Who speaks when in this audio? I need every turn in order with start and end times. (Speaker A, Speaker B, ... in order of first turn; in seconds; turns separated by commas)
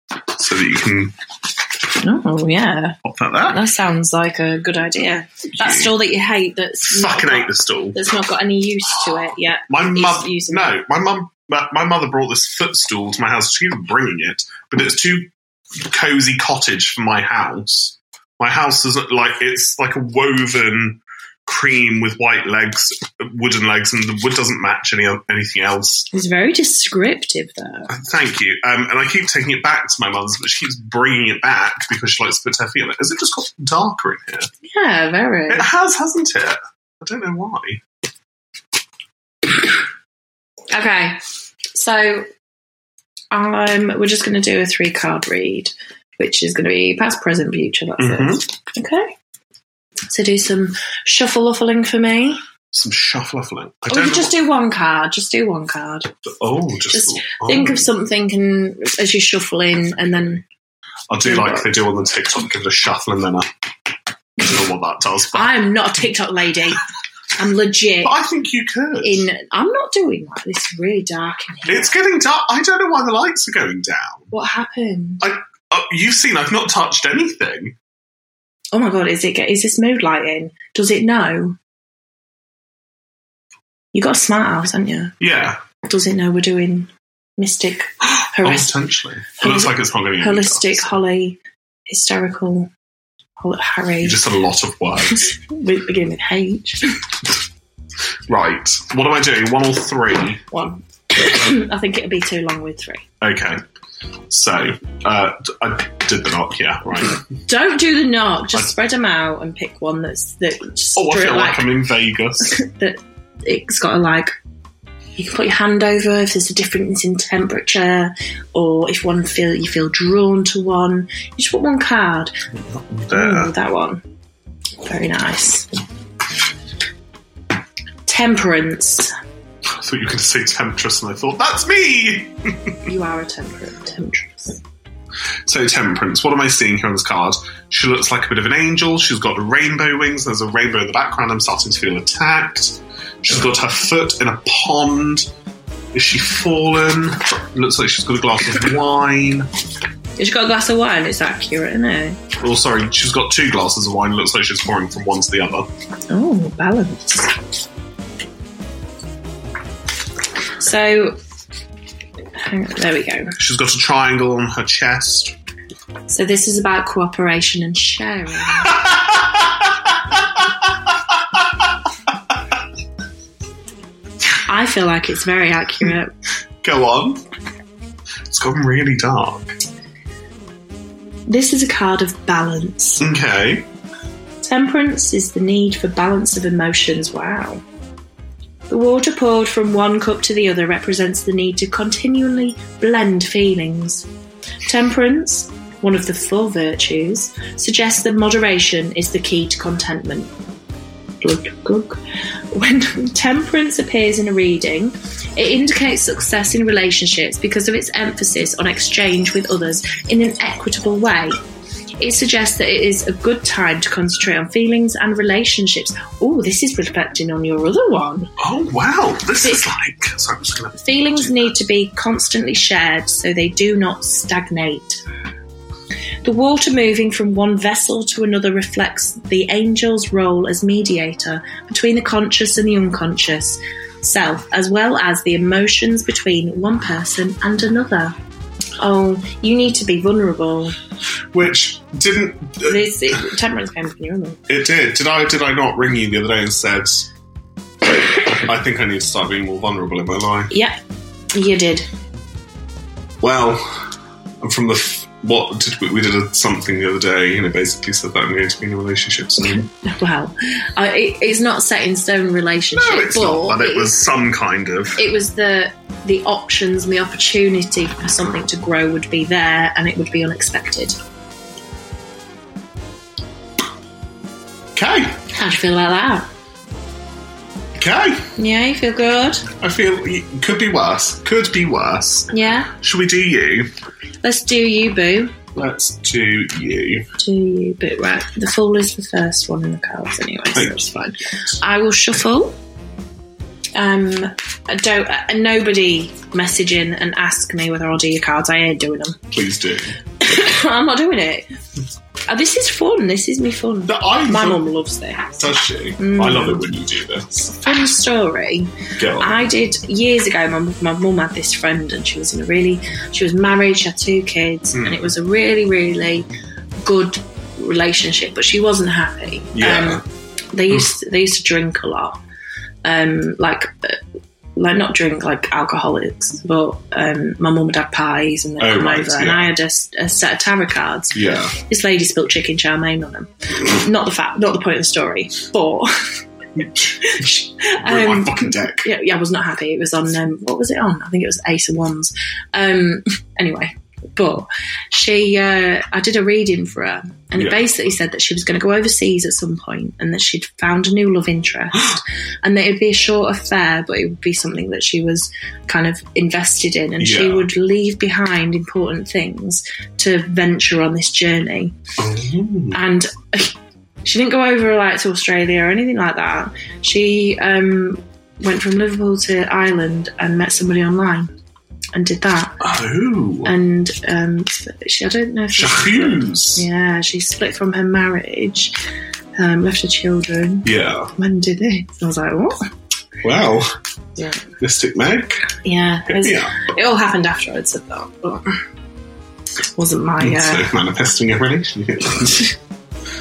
Speaker A: 0.3-1.1, Speaker B: 1.9-3.0, Speaker A: 3.0-3.6, Speaker B: 3.5-10.8, Speaker A: 5.6-5.9, Speaker A: 6.9-8.0, Speaker A: 8.9-26.1, Speaker B: 26.1-27.9, Speaker A: 27.9-34.5, Speaker B: 34.6-35.7, Speaker A: 35.5-37.8, Speaker B: 40.7-41.2, Speaker B: 41.7-42.3, Speaker B: 43.3-49.1, Speaker A: 48.0-48.4, Speaker B: 50.1-52.4, Speaker A: 52.7-54.3, Speaker B: 53.9-56.1, Speaker A: 56.2-57.9, Speaker B: 56.9-60.4, Speaker A: 61.1-63.5, Speaker B: 61.2-61.7, Speaker A: 64.4-65.5, Speaker B: 65.3-66.8, Speaker B: 67.3-68.2, Speaker A: 68.0-69.3, Speaker B: 69.0-72.0, Speaker A: 71.7-74.3, Speaker B: 74.3-75.2, Speaker A: 75.2-77.7, Speaker B: 78.7-81.6, Speaker B: 83.9-85.1, Speaker A: 85.2-85.6, Speaker B: 85.8-88.7, Speaker A: 88.0-91.0, Speaker B: 89.4-92.7, Speaker B: 93.4-94.2, Speaker A: 94.0-95.3, Speaker B: 95.2-97.0, Speaker A: 98.3-100.5, Speaker B: 100.5-103.0, Speaker A: 103.2-103.6, Speaker A: 104.3-107.2, Speaker B: 107.5-111.7, Speaker A: 111.0-112.6, Speaker B: 112.4-114.3, Speaker B: 115.2-122.3, Speaker A: 122.5-123.5, Speaker B: 123.1-124.0, Speaker B: 124.8-125.7, Speaker B: 128.1-129.1, Speaker A: 129.7-132.8, Speaker B: 132.8-134.6, Speaker A: 135.4-145.3, Speaker A: 145.9-149.5, Speaker B: 150.2-152.2, Speaker A: 152.4-155.7, Speaker B: 156.1-157.4, Speaker B: 160.6-161.2, Speaker B: 162.3-163.3, Speaker A: 163.4-165.3, Speaker B: 166.1-168.7, Speaker A: 168.6-171.4, Speaker B: 174.4-176.1, Speaker A: 176.6-177.2, Speaker A: 178.3-179.5, Speaker B: 181.3-183.0, Speaker A: 183.0-183.7, Speaker B: 184.4-187.6, Speaker B: 188.7-194.1, Speaker B: 194.7-200.3, Speaker B: 201.2-202.0, Speaker B: 202.5-211.4, Speaker B: 212.0-218.3, Speaker A: 218.4-221.5, Speaker B: 220.8-225.0, Speaker B: 226.2-238.1, Speaker B: 238.8-240.7, Speaker A: 241.3-242.9, Speaker B: 242.6-244.4, Speaker A: 244.5-247.1, Speaker A: 248.2-250.5, Speaker B: 250.5-250.8, Speaker B: 251.3-251.9, Speaker A: 253.2-253.9, Speaker A: 254.4-259.7, Speaker B: 259.4-263.9, Speaker A: 262.7-265.0, Speaker B: 264.9-271.0, Speaker A: 274.8-275.2, Speaker B: 275.3-276.3, Speaker A: 277.8-278.3, Speaker B: 278.4-279.5, Speaker A: 279.6-283.7, Speaker B: 282.3-282.7, Speaker B: 284.2-285.3, Speaker A: 285.5-287.1, Speaker B: 287.2-292.6, Speaker B: 293.7-299.2, Speaker A: 299.3-300.0, Speaker B: 300.2-301.5, Speaker B: 302.3-305.4, Speaker A: 303.9-304.6, Speaker A: 305.4-307.5, Speaker B: 306.0-306.6, Speaker B: 307.4-316.3, Speaker A: 309.0-309.3, Speaker A: 314.7-315.0, Speaker B: 316.8-320.0, Speaker A: 319.5-320.0, Speaker B: 320.5-322.2, Speaker B: 322.8-324.0, Speaker B: 324.6-335.9, Speaker A: 328.6-329.5, Speaker A: 331.1-331.5, Speaker A: 336.6-337.1, Speaker B: 337.0-361.8, Speaker A: 337.8-338.9, Speaker A: 347.4-347.6, Speaker A: 357.0-357.5, Speaker A: 362.0-362.8, Speaker B: 362.7-371.3, Speaker B: 371.9-372.6, Speaker A: 372.6-373.5, Speaker B: 373.4-378.8, Speaker A: 375.5-376.6, Speaker B: 379.4-382.6, Speaker A: 380.6-381.1, Speaker A: 383.2-383.7, Speaker B: 384.1-384.4, Speaker A: 384.6-385.5, Speaker B: 385.6-388.6, Speaker A: 386.1-386.6, Speaker B: 389.7-390.7, Speaker A: 390.2-392.5